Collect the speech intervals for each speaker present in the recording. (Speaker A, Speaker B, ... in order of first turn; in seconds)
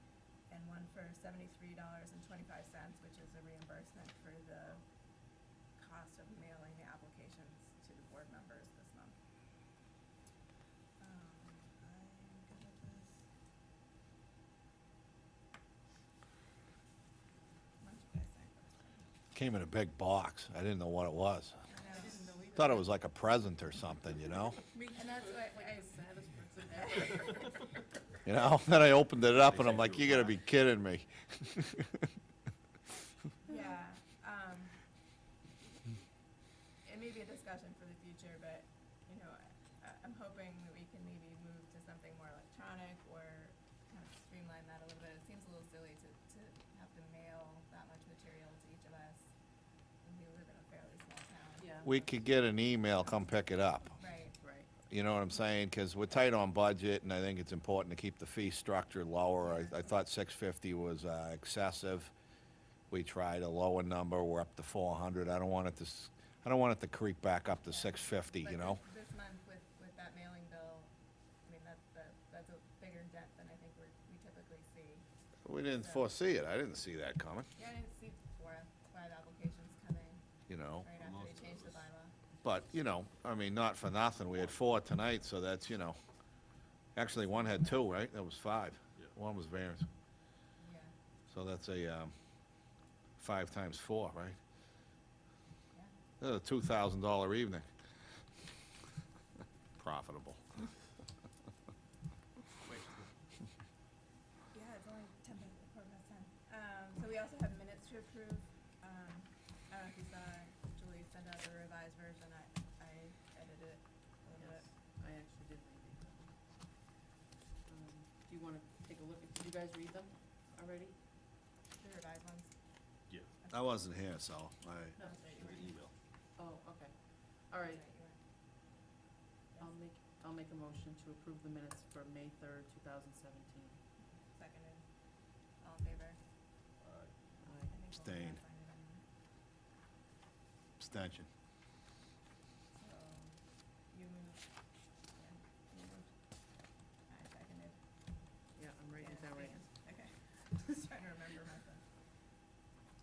Speaker A: 0.5-4.8, 5.8-9.2, 11.0-13.2, 17.8-19.1, 21.7-22.2, 24.9-25.9, 26.9-27.6, 33.4-34.8, 36.8-49.3, 50.0-51.7, 54.0-54.4, 59.4-59.9, 67.7-70.9, 71.4-75.0, 75.7-76.1, 77.5-80.2, 80.8-82.1, 90.6-90.9, 104.5-114.6, 121.8-122.5, 123.4-123.7, 125.0-125.8, 127.7-128.2, 134.2-134.9, 135.6-136.2, 137.7-139.0, 142.7-143.4, 143.9-144.4, 145.1-146.2, 147.1-147.8, 149.0-151.9
Speaker B: 19.3-21.6, 22.5-24.6, 28.2-32.1, 51.8-54.0, 54.9-62.1, 62.9-68.8, 75.4-77.5, 80.5-80.9, 82.4-86.0, 86.9-89.9, 91.3-92.1, 93.2-94.4, 96.2-97.7, 99.8-100.6, 123.5-125.0, 138.0-138.4, 140.8-141.3
Speaker C: 21.7-22.8, 24.6-27.8, 51.6-52.0, 54.4-54.7, 114.4-116.3, 117.7-120.9, 125.0-125.5, 126.4-127.8, 129.6-133.8, 137.4-137.8, 148.6-149.9
Speaker D: 29.4-30.4, 80.9-81.9, 102.6-103.1, 125.4-125.9, 136.8-137.1